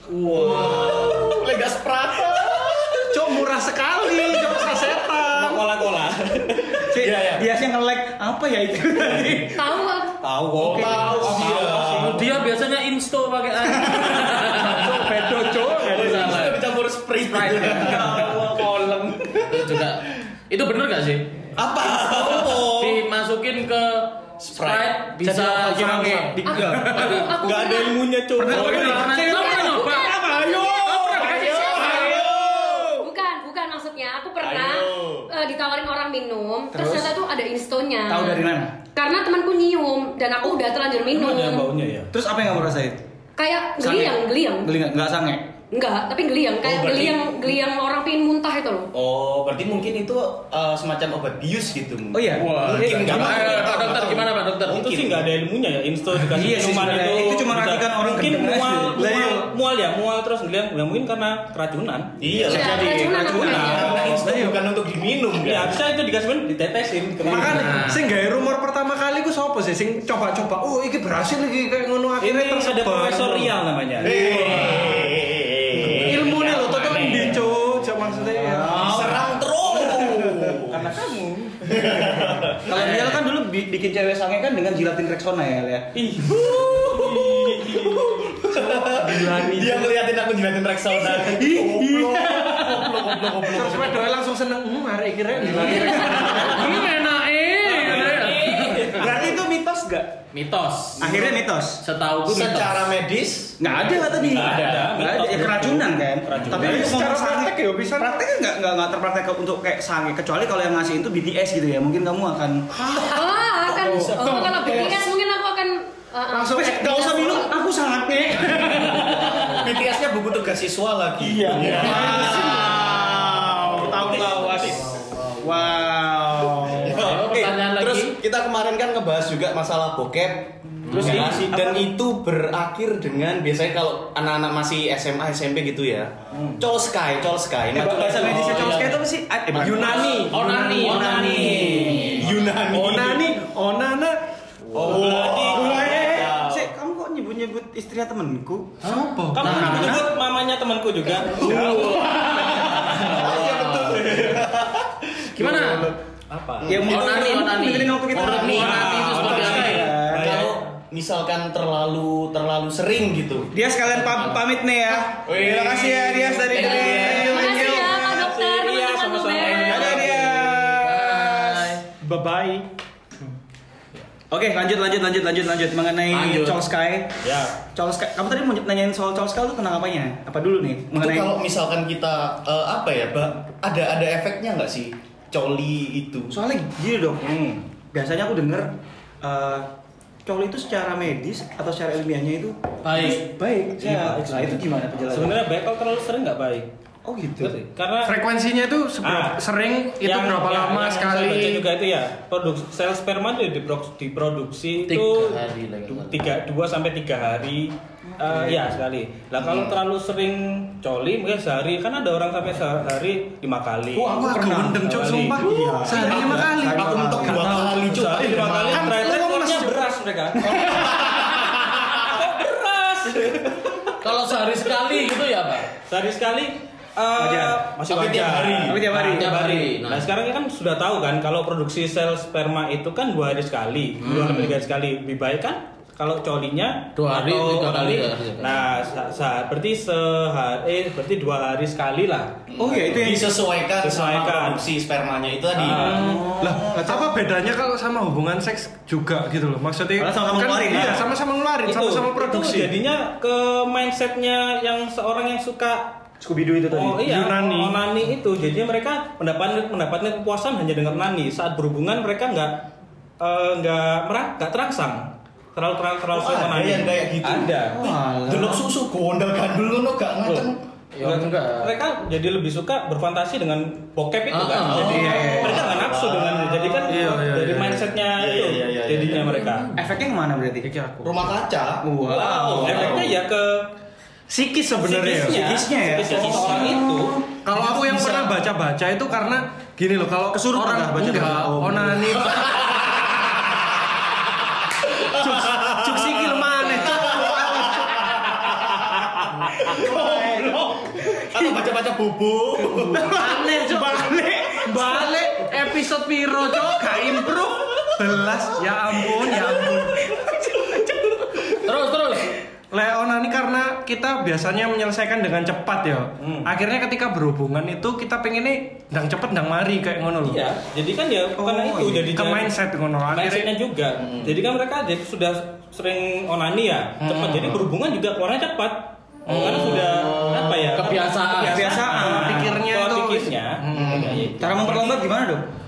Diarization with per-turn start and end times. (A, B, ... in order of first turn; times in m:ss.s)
0:00.1-0:03.4 A
0:00.2-0:01.2 B
0:03.1-0:05.6 C
0:05.0-0:07.1 D
0:06.8-0:09.8 B
0:07.0-0:07.4 A
0:09.5-0:10.1 E
0:10.2-0:11.8 D
0:10.6-0:12.3 A
0:10.6-0:11.2 B
0:11.2-0:14.9 F
0:14.5-0:16.5 C
0:15.7-0:18.7 A
0:15.9-0:16.6 F
0:17.3-0:19.4 B
0:17.4-0:18.4 F
0:19.4-0:21.3 F
0:21.6-0:23.0 A
0:22.3-0:26.4 F
0:24.4-0:25.0 A
0:25.2-0:27.2 B
0:26.4-0:28.0 E
0:27.0-0:29.2 D
0:27.0-0:27.2 F
0:28.4-0:29.9 B
0:28.5-0:30.2 F
0:29.1-0:41.7 E
0:30.9-0:31.9 F
0:31.2-0:32.1 C
0:31.2-0:33.0 A
0:31.4-0:32.3 B
0:34.4-0:35.3 A
0:36.7-0:37.1 B
0:38.1-0:38.7 B
0:41.1-0:42.1 D
0:42.1-0:43.0 B
0:43.4-0:44.7 E
0:43.8-0:45.5 B
0:45.7-0:48.9 E
0:46.6-0:47.5 A
0:48.9-0:54.3 A
0:52.1-0:54.2 B
0:52.4-0:55.2 F
0:54.7-1:04.1 D
0:56.3-0:59.5 B
0:56.5-0:57.0 A
1:02.2-1:05.8 A
1:02.5-1:04.1 E
1:03.7-1:04.6 C
1:05.4-1:07.8 D
1:07.2-1:13.5 C
1:07.5-1:08.0 F
1:12.2-1:14.7 D
1:14.0-1:17.4 A
1:14.1-1:15.0 C
1:15.8-1:19.1 C
1:18.4-1:20.3 B
1:18.5-1:20.8 A
1:20.6-1:22.1 D
1:21.6-1:22.7 A
1:22.6-1:26.0 B
1:22.7-1:23.1 F
1:26.1-1:34.1 A
1:26.8-1:28.3 D
1:28.5-1:29.8 B
1:29.0-1:29.8 C
1:30.9-1:37.1 C
1:35.5-1:39.0 F
1:37.6-1:38.9 C
1:37.6-1:39.3 D
1:38.9-1:40.2 B
1:40.3-1:41.3 F
1:41.0-1:41.8 B
1:41.0-1:41.3 A
1:41.8-1:42.9 F
1:42.2-1:44.9 A
1:43.6-1:53.0 B
1:44.1-1:47.0 D
1:46.5-1:48.2 C
1:53.0-1:57.5 E
1:53.6-1:55.1 A
1:54.0-1:54.9 C
1:56.3-1:57.4 C
1:56.5-1:59.3 B
1:58.8-2:04.5 A
2:01.3-2:07.0 B
2:04.0-2:04.9 D
2:04.9-2:05.4 F
2:06.7-2:23.3 A
2:06.9-2:08.1 F
2:10.9-2:11.4 F
2:10.9-2:11.5 D
2:10.9-2:11.9 B
2:16.3-2:16.6 D
2:17.7-2:22.3 B
2:18.4-2:18.8 C
2:19.6-2:21.7 C
2:20.3-2:22.2 F
2:22.7-2:24.2 C
2:24.7-2:26.7 A
2:24.8-2:28.9 B
2:24.9-2:25.4 D
2:28.8-2:30.0 F
2:28.8-2:29.6 C
2:29.3-2:32.0 D
2:29.4-2:30.2 B
2:31.2-2:35.9 A
2:31.3-2:32.4 F
2:33.0-2:34.2 F
2:35.4-2:35.9 F
2:35.5-2:35.8 B
2:36.3-2:37.0 D
2:36.6-2:37.0 A
2:36.6-2:40.4 B
2:36.8-2:39.9 F
2:38.1-2:43.5 A
2:38.4-2:40.7 D
2:43.5-2:47.9 B
2:45.2-2:48.2 A
2:46.6-2:47.3 F
2:46.6-2:49.9 E
2:47.5-2:50.8 D
2:49.4-2:52.6 B
2:50.8-2:51.8 F
2:54.3-2:57.1 B
2:56.1-2:56.6 F
2:57.2-2:57.6 D
2:57.6-3:01.4 B
3:00.9-3:06.3 A
3:06.3-3:07.3 B
3:07.2-3:07.6 D
3:07.9-3:08.7 B
3:09.2-3:09.7 B
3:10.2-3:15.4 B
3:12.8-3:13.2 F
3:13.8-3:16.7 D
3:17.0-3:17.5 B
3:17.4-3:18.2 D
3:18.0-3:21.6 C
3:19.0-3:19.4 D
3:20.0-3:34.2 D
3:24.9-3:26.2 F
3:29.4-3:29.8 A
3:34.0-3:37.5 B
3:34.0-3:39.9 C
3:34.8-3:36.5 D
3:36.0-3:39.0 A
3:37.8-3:41.0 D
3:40.3-3:40.9 B
3:40.6-3:41.9 A
3:41.9-3:43.5 D
3:43.2-3:43.7 A
3:44.0-3:45.7 F
3:45.8-4:02.3 D
3:47.2-3:47.7 B
3:47.9-3:48.8 A
3:48.6-3:49.4 B
3:48.9-3:50.1 F
3:54.0-3:54.6 F
3:57.0-3:58.6 F
4:02.5-4:05.9 A
4:02.6-4:03.3 B
4:03.8-4:04.7 D
4:05.6-4:06.2 D
4:05.6-4:07.2 B
4:05.7-4:12.7 C
4:10.0-4:11.1 B
4:11.6-4:16.0 D
4:16.2-4:17.0 B
4:16.7-4:22.6 D
4:16.9-4:17.8 C
4:23.2-4:27.9 D
4:26.1-4:27.7 A
4:27.7-4:28.6 B
4:28.3-4:30.6 A
4:30.3-4:31.7 F
4:31.0-4:39.8 D
4:34.3-4:35.1 F
4:34.6-4:39.4 A
4:34.7-4:35.7 B
4:39.3-4:39.7 F
4:39.8-4:40.6 B
4:40.7-4:41.2 F
4:41.0-4:43.1 A
4:41.8-4:43.1 B
4:42.5-4:43.7 D
4:44.3-4:45.5 C
4:44.8-4:47.2 D
4:45.1-4:47.2 B
4:47.3-4:52.6 C
4:47.5-4:48.3 A
4:50.3-4:52.3 B
4:52.3-4:53.6 A
4:54.9-5:03.1 A
4:55.0-4:58.0 C
4:59.7-5:00.6 B
5:02.9-5:05.1 B
5:03.0-5:10.8 C
5:09.5-5:11.6 A
5:11.6-5:12.4 F
5:12.7-5:20.4 C
5:16.2-5:16.5 D
5:20.2-5:22.5 D
5:21.4-5:22.1 B
5:22.1-5:23.5 C
5:23.1-5:35.0 D
5:24.0-5:24.3 A
5:27.0-5:27.5 C
5:29.3-5:30.7 A
5:29.3-5:31.7 F
5:31.3-5:32.5 B
5:31.8-5:34.0 C
5:33.7-5:34.3 A
5:34.4-5:35.4 B